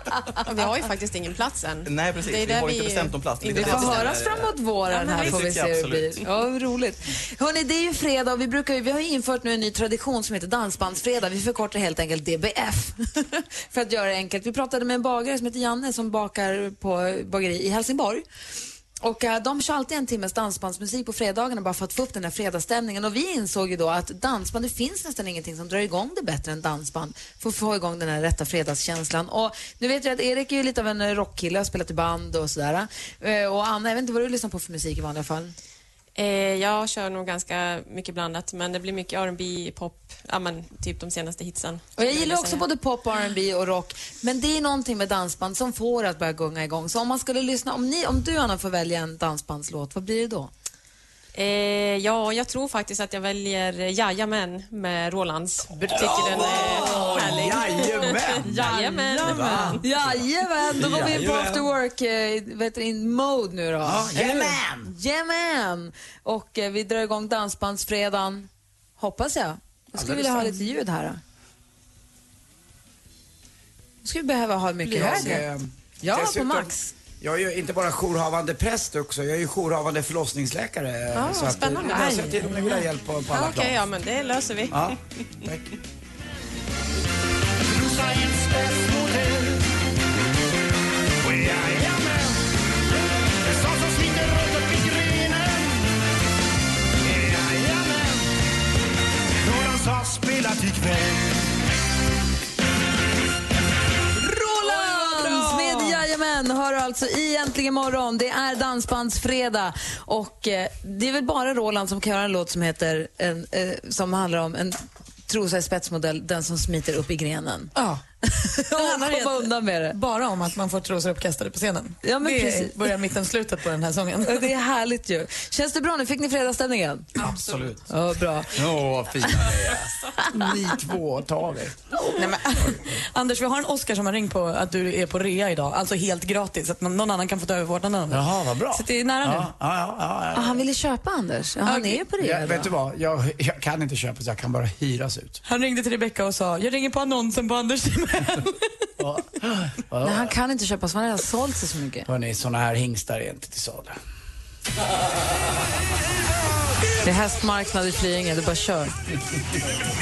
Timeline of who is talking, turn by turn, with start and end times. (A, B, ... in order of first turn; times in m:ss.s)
0:00.5-0:03.8 A
0:01.8-0:06.2 B
0:03.5-0:18.2 C
0:19.0-0:35.6 C
0:36.2-0:42.6 A
0:42.0-0:50.5 C
0:51.4-0:59.3 A
0:55.9-1:00.2 D
0:58.5-0:59.9 E
0:59.8-1:04.1 C
1:00.7-1:01.7 D
1:03.8-1:04.9 D
1:04.8-1:08.5 C
1:09.0-1:11.2 C
1:10.0-1:10.6 D
1:14.0-1:15.5 C
1:14.9-1:23.8 D
1:16.0-1:16.9 C
1:21.2-1:22.5 A
1:23.3-1:24.8 A
1:24.7-1:25.7 D
1:28.0-1:28.2 D
1:31.3-1:32.2 D
1:33.7-1:35.4 D
1:37.3-1:37.8 D
1:39.5-1:41.0 D
1:44.2-1:57.8 C
1:44.4-1:46.0 E
1:57.7-1:58.0 E
1:58.3-2:00.0 C
1:58.7-2:04.5 E
2:02.0-2:02.9 C
2:04.2-2:07.3 C
2:07.2-2:07.9 B
2:07.9-2:08.6 C
2:08.5-2:11.9 D
2:12.0-2:19.5 E
2:18.1-2:20.6 D
2:20.3-2:22.7 C
2:21.6-2:22.0 E
2:22.2-2:25.4 D
2:25.5-2:28.7 E
2:29.0-2:30.3 D
2:30.0-2:32.1 C
2:32.1-2:34.0 D
2:37.0-2:38.9 C